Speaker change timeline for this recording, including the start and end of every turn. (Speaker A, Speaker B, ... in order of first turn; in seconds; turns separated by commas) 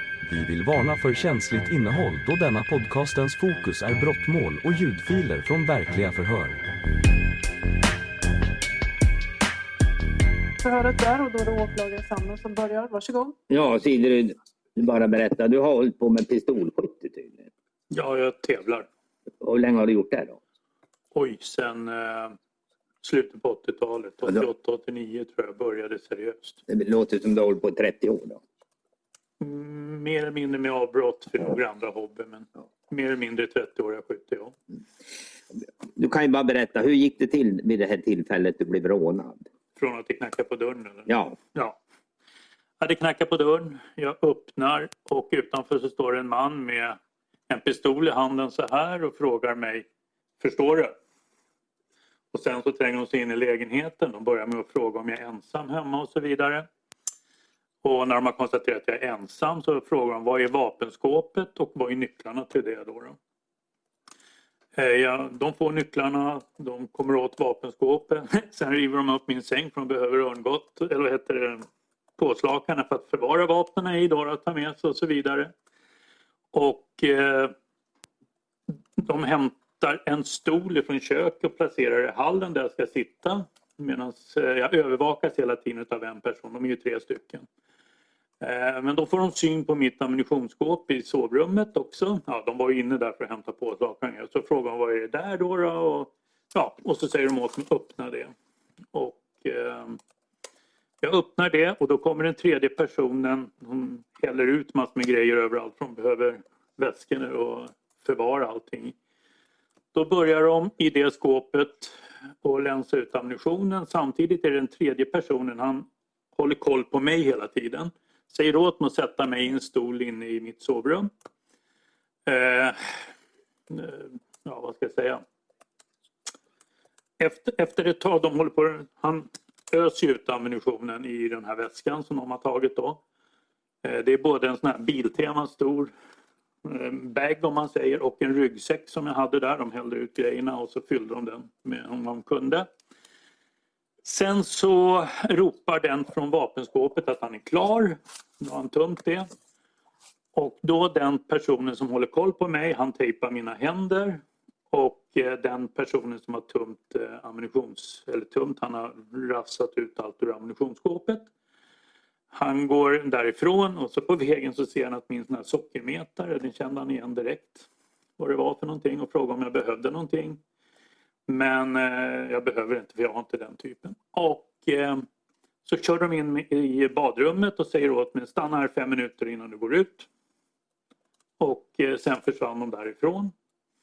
Speaker A: 0.2-6.6, Speaker B: 10.6-13.3, Speaker C: 13.5-17.5, Speaker D: 17.9-18.9, Speaker C: 19.4-20.4, Speaker D: 21.1-22.4, Speaker D: 23.0-26.6, Speaker C: 26.7-28.4, Speaker D: 29.4-34.5, Speaker C: 36.0-39.4, Speaker D: 39.8-41.8, Speaker C: 41.1-41.4, Speaker D: 42.8-49.9, Speaker D: 50.4-50.9, Speaker D: 52.3-56.7, Speaker D: 57.8-63.2, Speaker D: 64.8-71.7, Speaker D: 72.2-75.5, Speaker D: 76.5-77.5, Speaker D: 79.0-87.5, Speaker D: 88.4-98.3, Speaker D: 98.9-100.0, Speaker D: 101.0-109.0, Speaker D: 109.9-121.1, Speaker D: 122.3-123.0, Speaker D: 123.7-125.2, Speaker D: 127.2-133.0, Speaker D: 133.8-135.9, Speaker D: 136.7-142.7, Speaker D: 144.0-149.3, Speaker D: 150.3-161.3, Speaker D: 162.3-170.4, Speaker D: 171.3-175.1, Speaker D: 175.7-180.1, Speaker D: 181.4-183.3